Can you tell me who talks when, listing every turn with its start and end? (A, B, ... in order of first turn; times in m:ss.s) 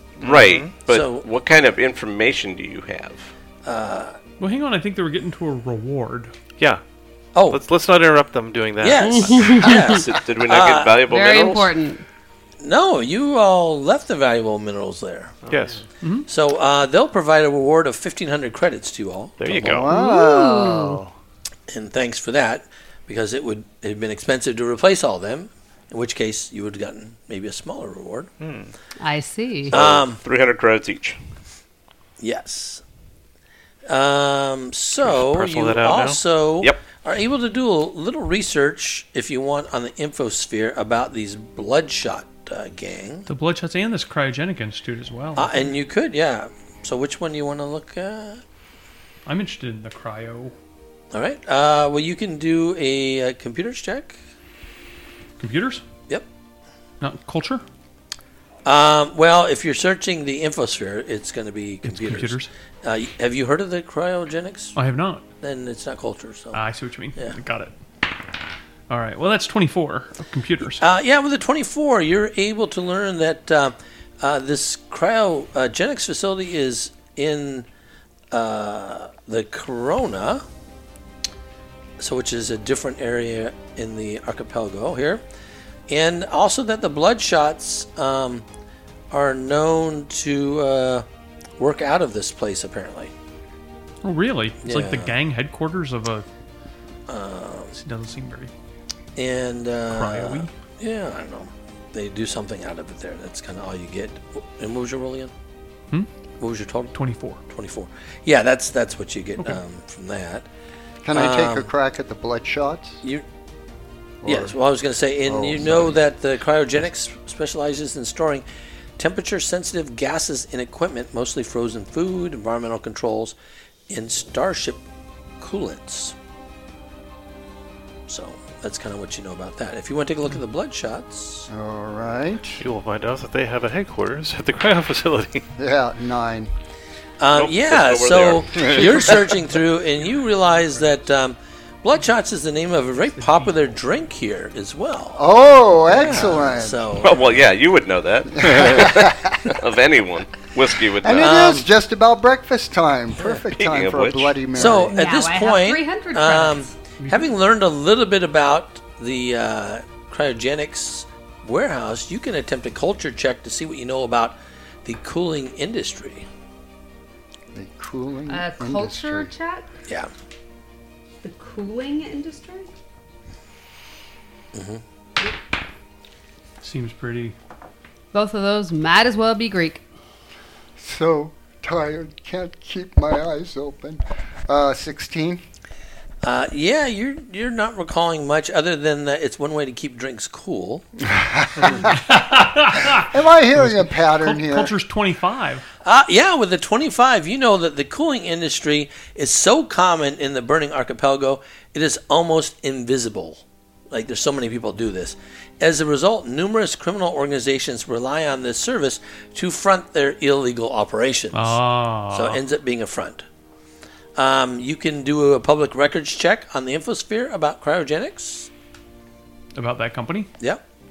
0:00.2-0:00.7 A
0:00.2-0:03.3 B
0:00.9-0:01.2 C
0:03.6-0:04.2 C
0:04.4-0:06.3 D
0:07.4-0:07.6 C
0:07.5-0:09.5 A
0:08.8-0:11.0 C
0:09.0-0:10.0 E
0:09.6-0:11.7 B
0:11.1-0:12.0 E
0:12.6-0:15.4 C
0:15.5-0:15.8 A
0:16.0-0:16.3 D
0:16.3-0:19.8 C
0:19.4-0:19.9 A
0:19.5-0:21.1 F
0:19.9-0:21.0 E
0:21.7-0:28.3 C
0:28.4-0:28.7 A
0:29.0-0:29.8 E
0:29.7-0:30.2 C
0:29.7-0:31.2 B
0:32.2-0:32.8 C
0:33.9-0:43.3 C
0:35.0-0:36.2 A
0:43.3-0:45.8 D
0:45.4-0:48.4 C
0:49.3-0:50.5 D
0:51.1-0:54.2 C
0:55.4-0:55.8 D
0:57.0-0:57.6 D
0:58.6-1:04.8 C
1:01.8-1:02.5 D
1:04.8-1:05.2 D
1:05.4-1:06.6 C
1:06.5-1:07.8 D
1:08.9-1:10.8 D
1:10.8-1:17.7 C
1:18.3-1:20.4 C
1:22.0-1:25.2 C
1:25.9-1:28.4 C
1:29.1-1:31.1 C
1:31.6-1:33.1 C
1:34.0-1:36.3 D
1:34.6-1:35.2 C
1:37.1-1:37.8 C
1:37.7-1:38.5 D
1:39.2-1:45.3 C
1:39.9-1:40.5 D
1:46.4-1:50.5 C
1:46.9-1:47.4 D
1:51.0-1:53.0 F
1:51.1-1:51.7 C
1:54.2-1:54.6 F
1:54.2-1:58.4 C
1:55.3-1:56.0 F
1:59.0-2:03.4 C
2:03.9-2:04.8 C
2:05.4-2:06.2 C
2:08.1-2:11.5 C
2:11.5-2:12.6 F
2:12.6-2:15.4 A
2:15.6-2:16.5 F
2:17.2-2:25.3 C
2:17.3-2:19.1 B
2:18.6-2:19.1 F
2:23.2-2:23.5 D
2:25.2-2:26.9 F
2:25.9-2:27.4 C
2:27.0-2:31.5 B
2:28.4-2:29.4 F
2:31.0-2:35.0 F
2:31.2-2:31.6 C
2:33.4-2:34.4 B
2:34.5-2:46.3 C
2:34.6-2:36.7 E
2:37.0-2:37.3 D
2:47.5-2:49.3 F
2:48.3-2:49.7 E
2:51.2-2:52.7 E
2:54.5-2:54.8 C
2:56.6-2:57.4 D
2:58.1-2:59.8 E
3:00.8-3:05.4 F
3:06.2-3:10.9 C
3:11.1-3:12.0 F
3:11.8-3:15.6 D
3:12.8-3:14.7 F
3:15.8-3:33.3 C
3:31.3-3:32.4 D
3:34.2-3:38.5 C
3:39.6-3:40.3 D